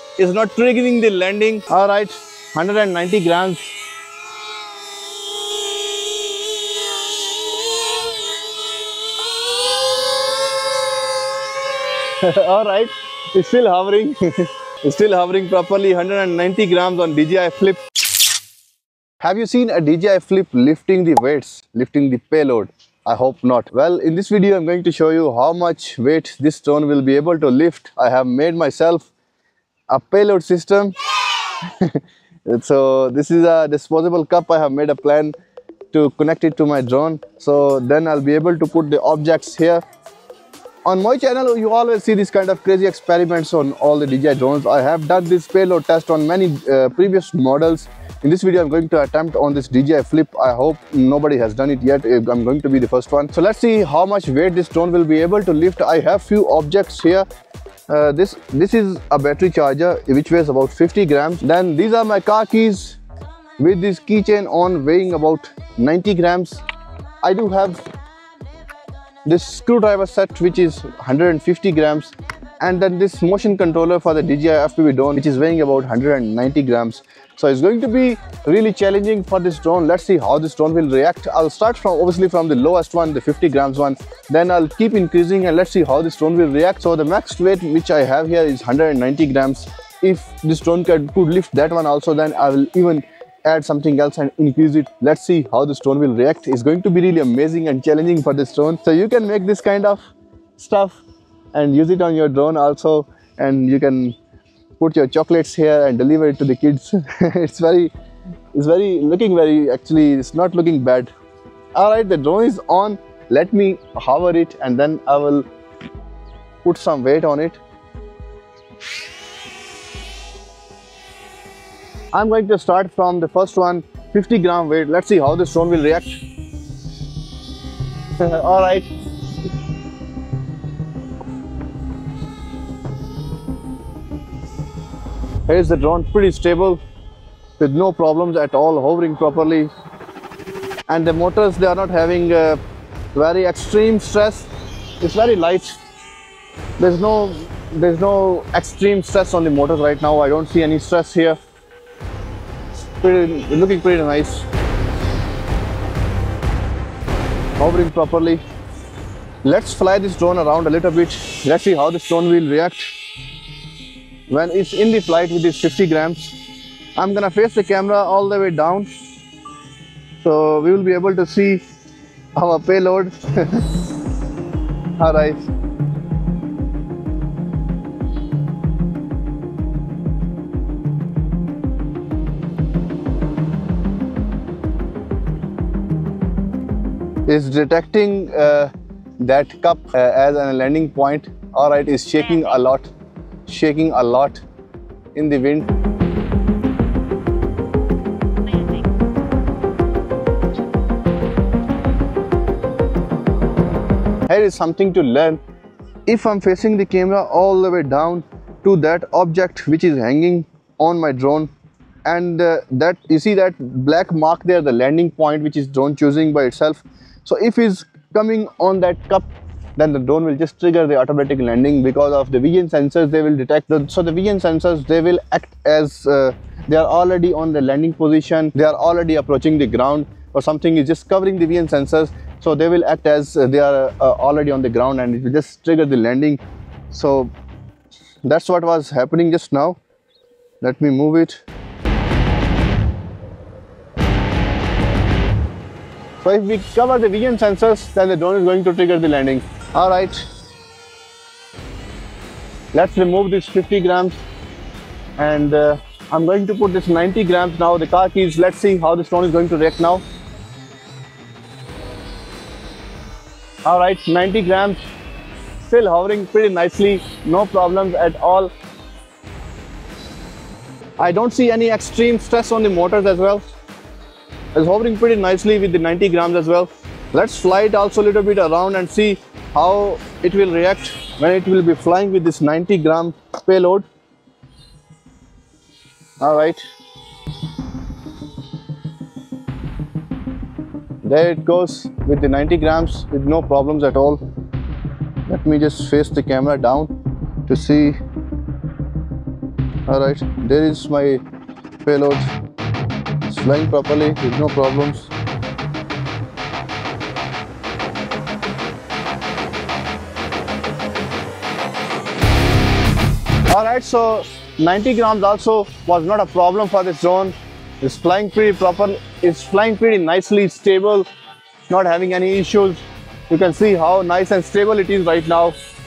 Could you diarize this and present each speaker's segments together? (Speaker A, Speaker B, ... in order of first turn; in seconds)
Speaker A: 0.2-3.6, 12.2-17.8, 19.2-29.1, 29.9-30.9, 31.6-35.3, 35.9-39.8, 40.8-57.2, 57.9-63.0, 63.6-66.6, 67.2-67.8, 69.2-101.0, 101.5-104.2, 104.8-107.9, 108.5-111.1, 111.7-115.5, 116.6-117.6, 122.1-126.2, 128.2-128.9, 135.5-136.8, 137.6-139.7, 140.9-142.6, 143.1-145.8, 146.8-151.4, 153.0-154.4, 157.6-158.4, 159.4-162.9, 164.3-166.4, 166.9-168.9, 170.2-171.6, 172.3-173.7, 175.0-175.4, 187.3-192.9, 193.4-194.4, 195.1-195.7, 204.3-205.4, 206.1-211.5, 212.0-236.4, 236.9-237.3, 238.2-239.8, 240.6-241.4, 246.2-250.2, 252.7-254.2, 255.2-260.0, 263.6-264.8, 265.6-268.5, 271.0-273.4, 274.5-283.8, 286.2-286.6, 291.0-294.2, 295.3-296.9, 297.5-298.0, 299.9-301.2, 301.8-302.3, 303.2-305.1, 313.5-321.1, 321.7-325.5